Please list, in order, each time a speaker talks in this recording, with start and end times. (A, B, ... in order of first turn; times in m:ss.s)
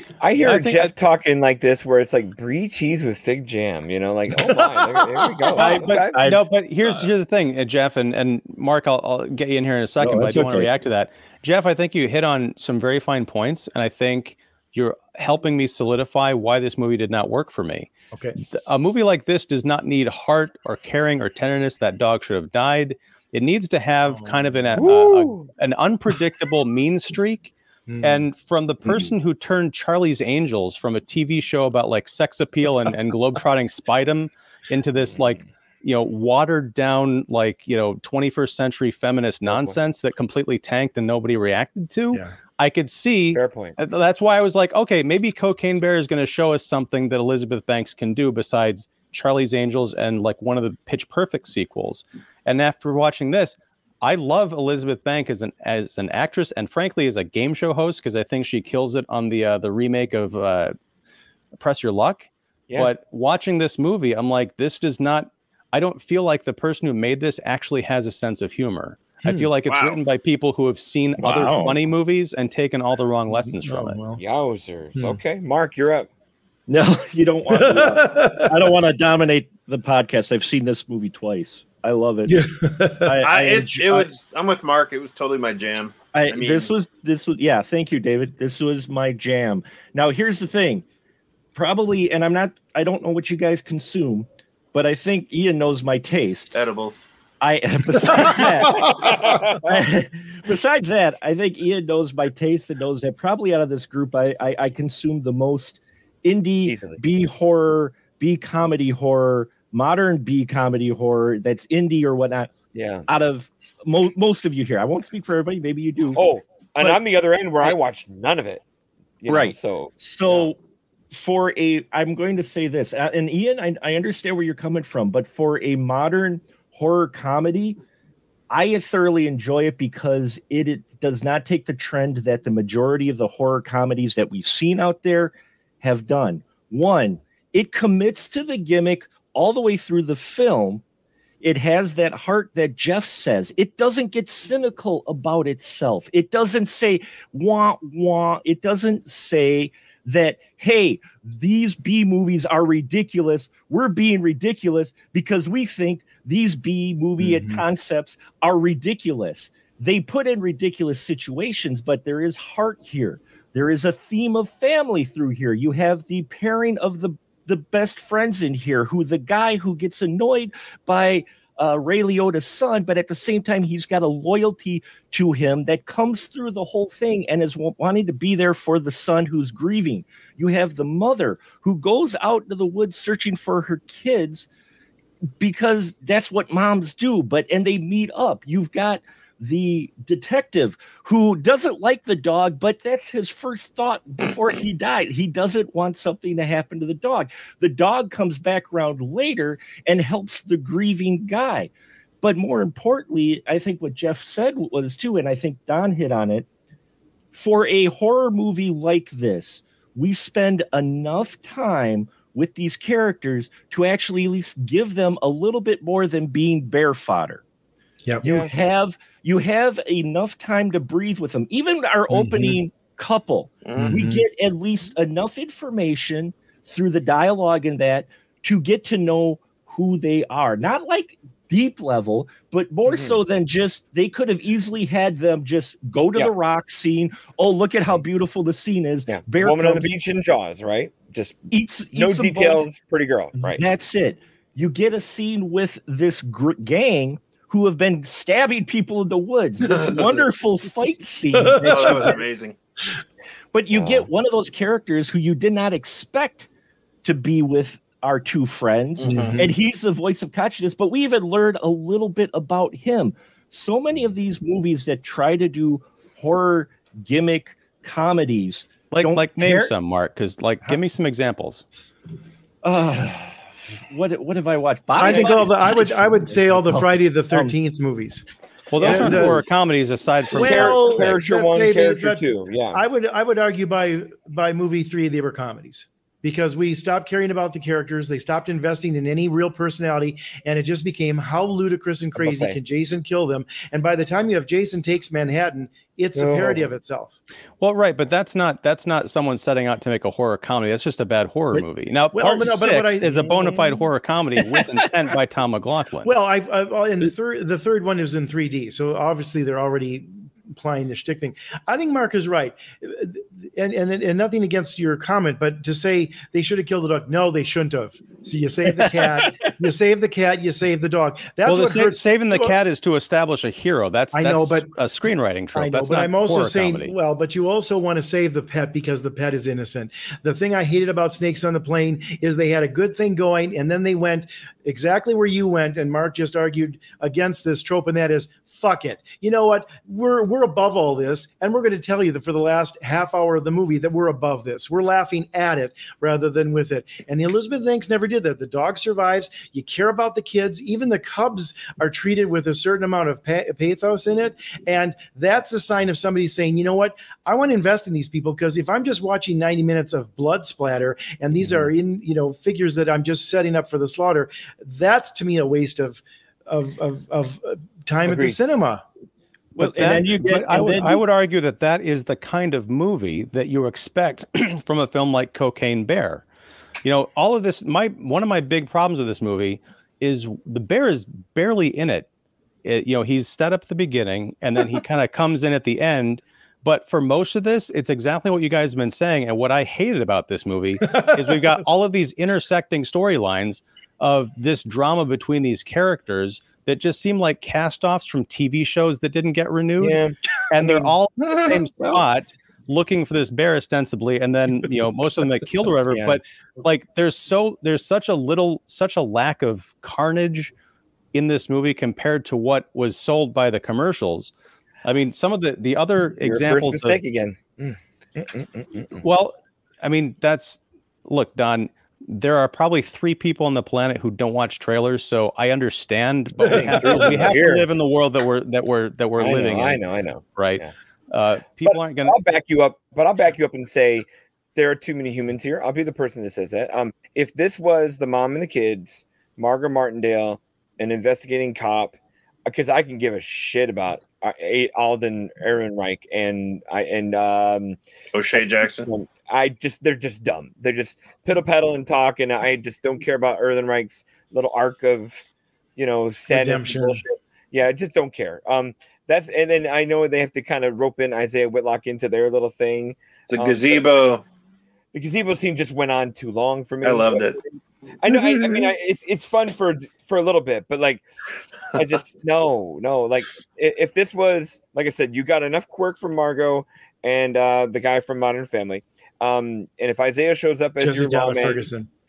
0:00.2-0:06.2 A
0:00.4-0:00.9 B
0:05.4-0:07.1 C
0:05.6-0:17.9 B
0:10.0-0:10.7 C
0:18.1-0:18.4 D
0:18.4-1:00.7 B
0:24.1-0:24.5 D
0:24.8-0:25.5 A
0:27.9-0:28.2 D
0:39.5-0:39.7 A
0:43.3-0:43.8 A
1:01.6-1:14.0 B
1:09.7-1:10.0 E
1:11.2-1:11.8 C
1:13.3-1:14.2 D
1:14.2-1:16.1 A
1:14.9-1:15.2 D
1:16.7-1:24.1 C
1:17.5-1:18.6 D
1:22.3-1:23.2 D
1:23.2-1:26.7 E
1:26.1-1:30.8 C
1:31.6-1:36.7 C
1:36.5-1:37.0 E
1:37.4-1:52.5 C
1:38.1-1:39.2 D
1:38.8-1:39.8 A
1:46.6-1:47.0 A
1:52.7-1:53.1 A
1:53.1-1:57.0 C
1:56.1-1:58.6 A
1:59.2-2:00.5 A
1:59.3-2:00.6 C
2:01.1-2:07.8 C
2:08.5-2:20.8 C
2:21.4-3:04.5 C
2:37.2-2:37.6 D
3:05.4-3:26.5 C
3:27.3-3:37.4 C
3:38.2-3:59.9 C
3:38.2-3:38.6 A
3:42.1-3:42.6 D
3:43.6-3:44.0 E
3:43.8-3:44.2 D
3:52.9-3:53.2 A
3:59.1-4:03.6 A
4:01.5-4:02.6 C
4:03.4-4:12.1 C
4:11.3-4:12.2 D
4:11.6-4:12.6 E
4:13.5-4:16.5 C
4:13.7-4:14.1 A
4:17.0-4:29.7 C
4:19.0-4:19.4 E
4:19.1-4:19.5 D
4:28.9-4:31.6 B
4:32.6-4:37.6 C
4:35.0-4:38.2 D
4:38.7-4:41.2 B
4:38.8-4:39.4 D
4:38.8-4:39.2 A
4:38.8-4:39.4 C
4:40.3-4:42.8 A
4:40.3-4:57.2 D
4:52.2-4:52.6 A
4:56.1-4:56.7 A
4:57.6-5:06.1 B
5:02.1-5:03.6 D
5:03.1-5:03.6 A
5:06.0-5:22.6 D
5:18.7-5:19.6 C
5:21.4-5:26.9 B
5:24.1-5:24.7 D
5:25.5-6:08.8 D
6:08.1-6:08.4 A
6:09.6-6:11.0 C
6:09.6-6:16.2 B
6:16.8-6:22.1 B
6:22.6-6:40.0 B
6:30.8-6:31.5 D
6:39.8-6:42.0 A
6:40.5-6:50.5 B
6:45.9-6:46.2 A
6:51.1-6:54.3 B
6:54.8-6:57.0 B
6:56.2-6:59.0 A
6:59.0-7:09.8 B
7:06.4-7:07.7 A
7:06.6-7:07.3 D
7:09.2-7:10.7 A
7:10.4-7:12.2 B
7:11.6-7:27.8 A
7:28.1-7:28.9 E
7:28.3-7:35.2 A
7:35.8-7:43.9 A
7:36.3-7:37.0 D
7:43.3-7:44.2 E
7:44.9-7:47.3 A
7:46.8-7:47.4 E
7:48.0-7:51.0 A
7:51.7-8:01.6 A
8:00.8-8:01.9 D